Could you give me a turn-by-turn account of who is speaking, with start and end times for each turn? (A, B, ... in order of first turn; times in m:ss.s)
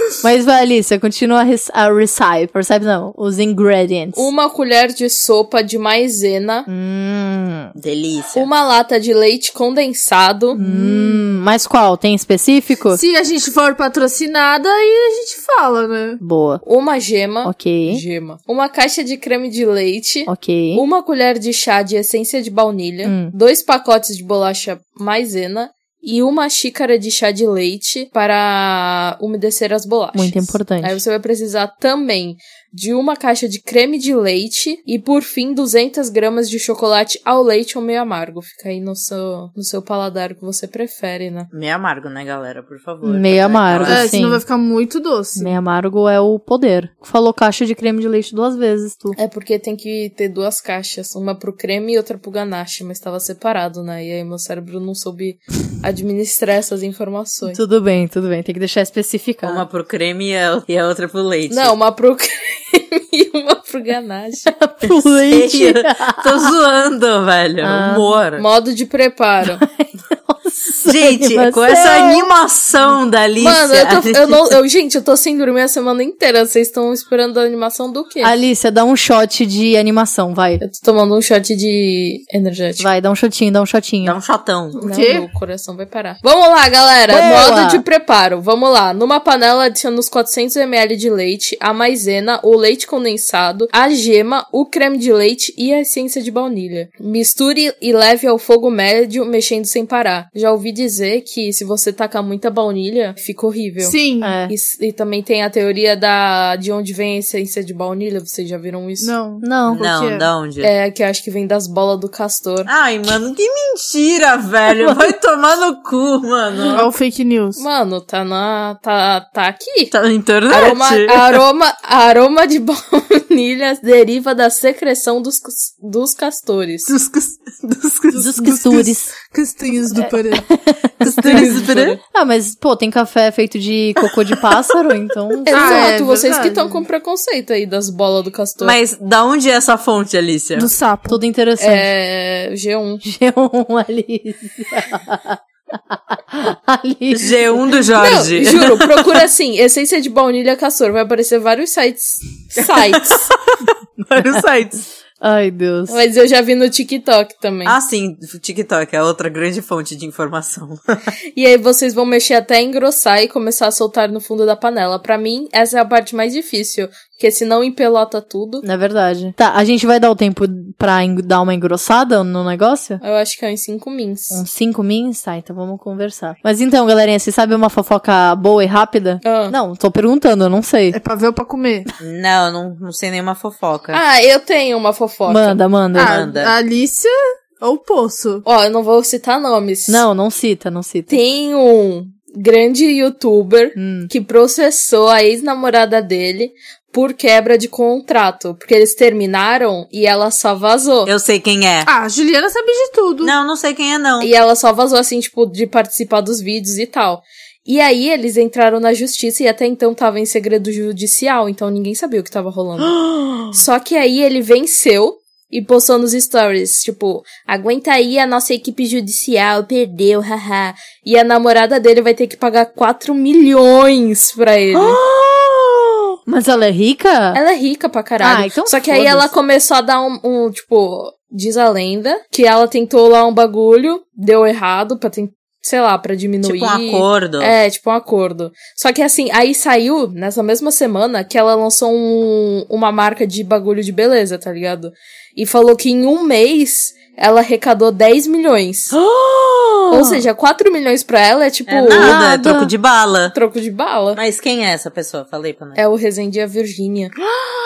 0:00.2-0:04.3 A
0:04.2-0:06.7 B
0:06.7-0:07.7 A
0:07.8-0:08.5 C
0:08.3-0:10.6 B
0:10.6-0:13.0 A
0:10.6-0:11.4 D
0:12.9-0:16.2 D
0:16.2-0:16.6 A
0:16.6-0:41.5 B
0:17.4-0:18.0 A
0:20.3-0:20.8 A
0:23.0-0:23.3 A
0:30.2-0:31.0 A
0:41.5-0:44.1 C
0:43.0-0:44.4 A
0:43.9-0:45.6 D
0:45.4-0:49.2 A
0:49.2-0:57.6 B
0:57.5-0:59.6 A
0:59.4-1:01.7 C
1:01.5-1:04.6 B
1:04.6-1:06.5 A
1:05.3-1:08.4 C
1:07.6-1:08.1 A
1:08.4-1:09.6 B
1:09.6-1:12.3 A
1:10.8-1:14.5 C
1:13.4-1:18.3 B
1:18.2-1:20.6 A
1:20.6-1:22.9 B
1:22.8-1:24.2 A
1:24.0-1:24.8 C
1:24.8-1:25.3 D
1:24.8-1:44.0 B
1:27.1-1:27.8 A
1:43.8-1:44.4 D
1:44.2-1:44.5 A
1:44.5-1:49.1 B
1:49.0-1:50.3 D
1:49.4-1:49.9 A
1:49.7-1:50.7 C
1:50.6-1:52.7 B
1:52.7-1:56.9 C
1:54.7-1:55.1 A
1:56.8-1:57.6 D
1:57.6-1:59.9 B
1:59.9-2:01.4 C
2:00.5-2:06.9 B
2:06.9-2:08.1 C
2:07.1-2:07.4 D
2:08.1-2:10.5 D
2:08.2-2:09.1 A
2:10.0-2:15.9 A
2:11.0-2:12.0 C
2:11.2-2:12.0 B
2:15.5-2:18.8 B
2:15.5-2:16.8 D
2:18.6-2:20.7 C
2:20.6-2:21.2 D
2:21.1-2:21.9 A
2:21.6-2:23.0 B
2:23.0-2:25.4 A
2:25.9-2:27.6 A
2:27.1-2:28.9 C
2:28.0-2:33.3 B
2:32.9-2:34.8 C
2:35.2-2:36.0 A
2:35.9-2:37.8 B
2:37.6-2:41.1 C
2:41.3-2:48.6 B
2:48.6-2:53.0 A
2:53.0-2:54.4 B
2:54.3-3:01.0 A
2:59.2-2:59.6 B
3:00.9-3:01.9 D
3:02.0-3:04.0 C
3:03.9-3:05.6 B
3:05.3-3:06.2 A
3:05.9-3:06.6 C
3:05.9-3:08.4 D
3:08.4-3:10.0 B
3:09.9-3:11.2 A
3:11.1-3:21.1 B
3:13.8-3:14.1 A
3:21.1-3:21.9 C
3:21.9-3:23.4 D
3:23.2-3:24.3 C
3:24.2-3:33.0 B
3:33.0-3:33.5 A
3:33.5-3:45.0 B
3:44.7-3:47.4 A
3:47.3-4:09.0 B
3:48.2-3:49.3 A
3:56.4-3:57.6 C
4:08.9-4:10.2 A
4:09.9-4:12.2 B
4:11.7-4:13.4 C
4:12.0-4:12.7 A
4:13.3-4:14.2 B
4:14.2-4:15.8 C
4:15.8-4:17.1 B